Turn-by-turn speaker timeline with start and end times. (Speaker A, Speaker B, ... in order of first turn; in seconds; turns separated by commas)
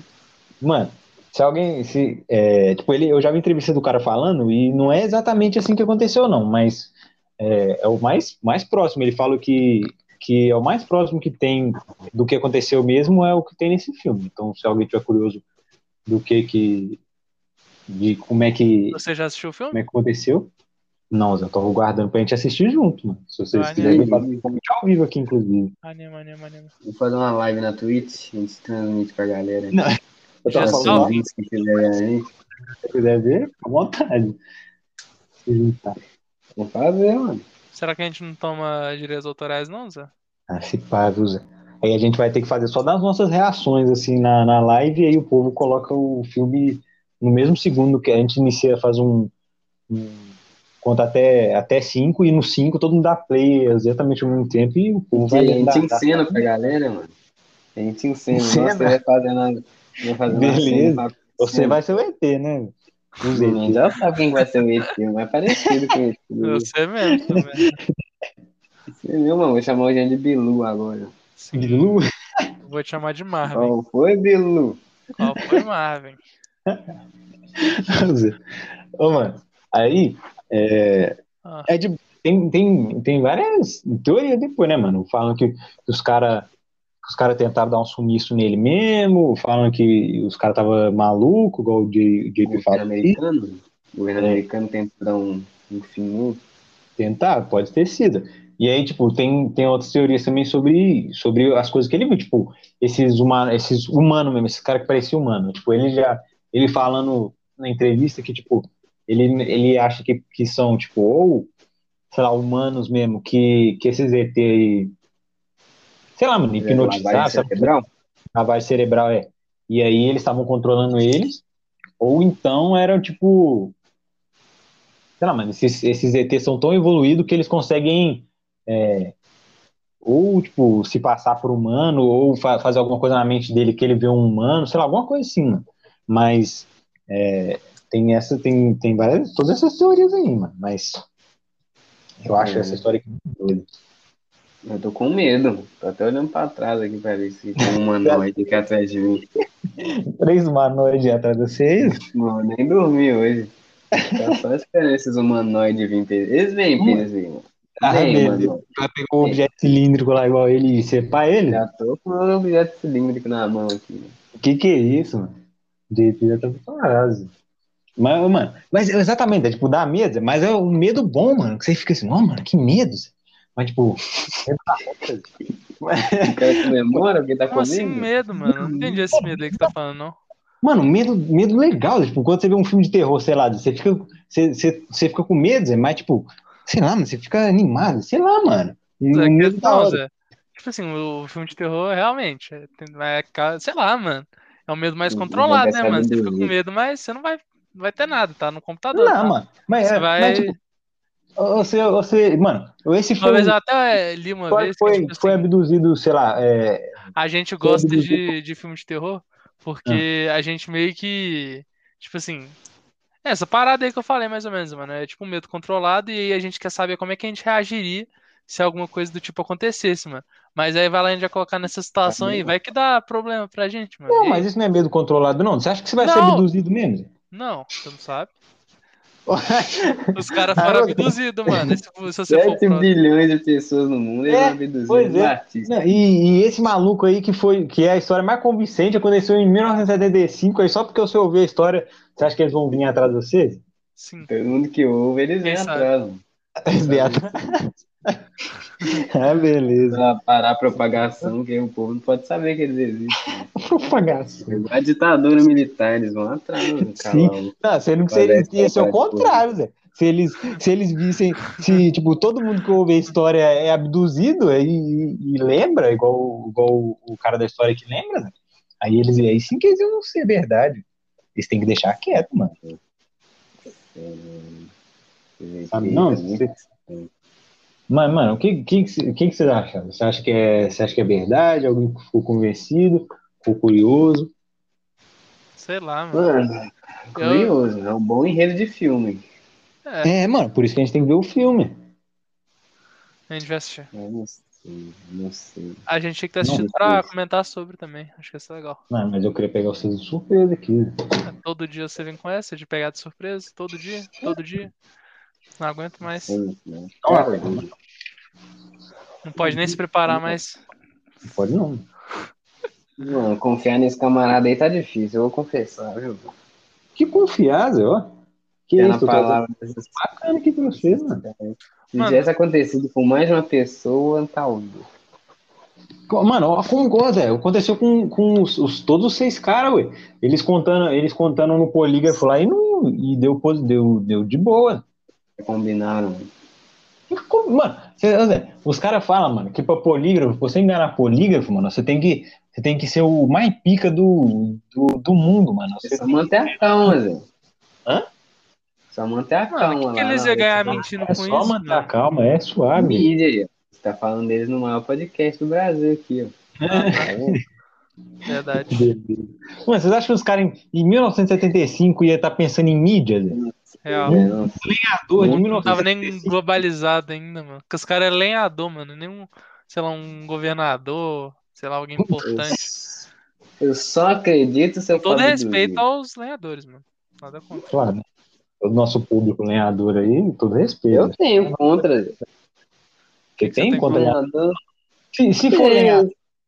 Speaker A: 0.6-15.4, Speaker A: 16.1-17.0, Speaker A: 17.9-19.0, Speaker B: 18.9-19.8, Speaker A: 19.7-20.5, Speaker A: 21.1-25.7, Speaker B: 23.5-24.1, Speaker C: 23.8-24.6, Speaker B: 25.8-26.7, Speaker C: 26.8-29.8, Speaker A: 29.7-31.1, Speaker B: 30.5-31.1, Speaker C: 30.5-32.3, Speaker A: 32.8-34.4, Speaker A: 35.4-36.0, Speaker C: 36.6-37.4, Speaker B: 37.7-40.1, Speaker A: 40.5-49.3, Speaker A: 49.9-50.3, Speaker A: 50.8-56.4, Speaker C: 55.1-57.1, Speaker C: 57.8-61.8, Speaker A: 58.3-59.0, Speaker A: 60.3-63.8, Speaker C: 63.3-66.7, Speaker B: 66.4-67.8, Speaker A: 67.2-67.7, Speaker C: 68.9-71.1, Speaker B: 71.4-72.0, Speaker A: 71.5-72.5, Speaker B: 72.6-73.8, Speaker C: 73.5-74.8, Speaker B: 75.2-76.2, Speaker A: 77.6-78.4, Speaker A: 79.0-86.5, Speaker B: 81.4-81.7, Speaker A: 87.0-93.2, Speaker C: 92.4-96.4, Speaker A: 97.0-111.5, Speaker A: 112.1-114.9, Speaker A: 116.2-117.7, Speaker C: 116.6-117.9, Speaker A: 118.3-121.4, Speaker A: 122.0-123.7, Speaker A: 125.2-129.1, Speaker A: 130.0-141.0, Speaker A: 142.2-143.7, Speaker C: 142.4-142.8, Speaker C: 144.7-149.2, Speaker A: 149.8-152.0, Speaker C: 151.9-158.6, Speaker A: 154.0-154.2, Speaker A: 156.8-157.0, Speaker A: 157.8-161.6, Speaker C: 161.5-164.2, Speaker A: 164.3-165.3, Speaker A: 165.9-167.3, Speaker A: 168.0-177.0, Speaker C: 176.2-178.1, Speaker B: 177.5-180.2, Speaker A: 178.6-179.7, Speaker A: 180.6-190.0, Speaker B: 189.1-200.6, Speaker C: 195.1-196.5, Speaker A: 198.9-200.6, Speaker A: 201.4-203.5, Speaker B: 203.2-205.4, Speaker A: 204.5-207.0, Speaker B: 207.2-212.6, Speaker A: 207.6-208.3, Speaker B: 213.2-224.4, Speaker C: 222.1-222.5, Speaker A: 224.1-227.1, Speaker B: 226.0-226.4, Speaker B: 227.3-228.3, Speaker A: 229.3-231.8, Speaker B: 230.1-232.9, Speaker C: 232.3-235.7, Speaker A: 234.3-243.6, Speaker B: 244.0-244.3, Speaker C: 244.2-247.3, Speaker B: 245.4-245.9, Speaker A: 246.7-247.5, Speaker A: 248.8-250.0, Speaker C: 249.9-253.5, Speaker A: 253.5-254.6, Speaker C: 254.4-257.5, Speaker A: 256.8-270.8, Speaker C: 258.1-259.4, Speaker A: 271.4-272.5, Speaker C: 273.6-274.7, Speaker C: 275.4-277.1, Speaker A: 275.7-276.5, Speaker A: 277.9-284.3, Speaker B: 285.6-286.3, Speaker C: 286.1-289.2, Speaker B: 287.2-287.5, Speaker A: 290.0-291.7, Speaker B: 293.3-293.9, Speaker C: 293.9-295.8, Speaker B: 295.9-298.8, Speaker A: 296.4-296.7, Speaker C: 296.5-297.1, Speaker A: 298.9-300.9, Speaker B: 301.2-304.7, Speaker B: 305.6-306.4, Speaker C: 306.1-307.7, Speaker A: 307.0-307.7, Speaker B: 309.2-310.6, Speaker A: 311.3-311.9, Speaker C: 313.0-316.3, Speaker A: 316.9-318.1, Speaker A: 318.7-319.4, Speaker C: 318.8-320.0, Speaker A: 319.9-321.2, Speaker C: 320.7-324.9, Speaker B: 322.0-322.3, Speaker A: 326.1-334.8, Speaker C: 335.4-336.3, Speaker A: 337.1-346.9, Speaker C: 345.8-347.2, Speaker C: 348.9-351.0, Speaker B: 349.5-351.9, Speaker A: 350.6-353.1, Speaker C: 352.7-357.4, Speaker A: 356.6-357.3, Speaker B: 356.7-357.1, Speaker B: 358.2-358.9, Speaker A: 358.7-363.4, Speaker C: 363.3-364.6, Speaker B: 363.8-364.2, Speaker A: 364.1-366.3, Speaker C: 365.2-365.7, Speaker B: 365.2-372.6, Speaker C: 372.2-373.0, Speaker C: 373.6-375.8, Speaker B: 374.9-377.7, Speaker A: 377.7-378.0, Speaker A: 378.6-381.6, Speaker C: 380.9-382.1, Speaker A: 383.4-384.1, Speaker B: 383.4-384.1, Speaker C: 383.9-384.6, Speaker A: 385.1-386.1, Speaker C: 385.5-386.1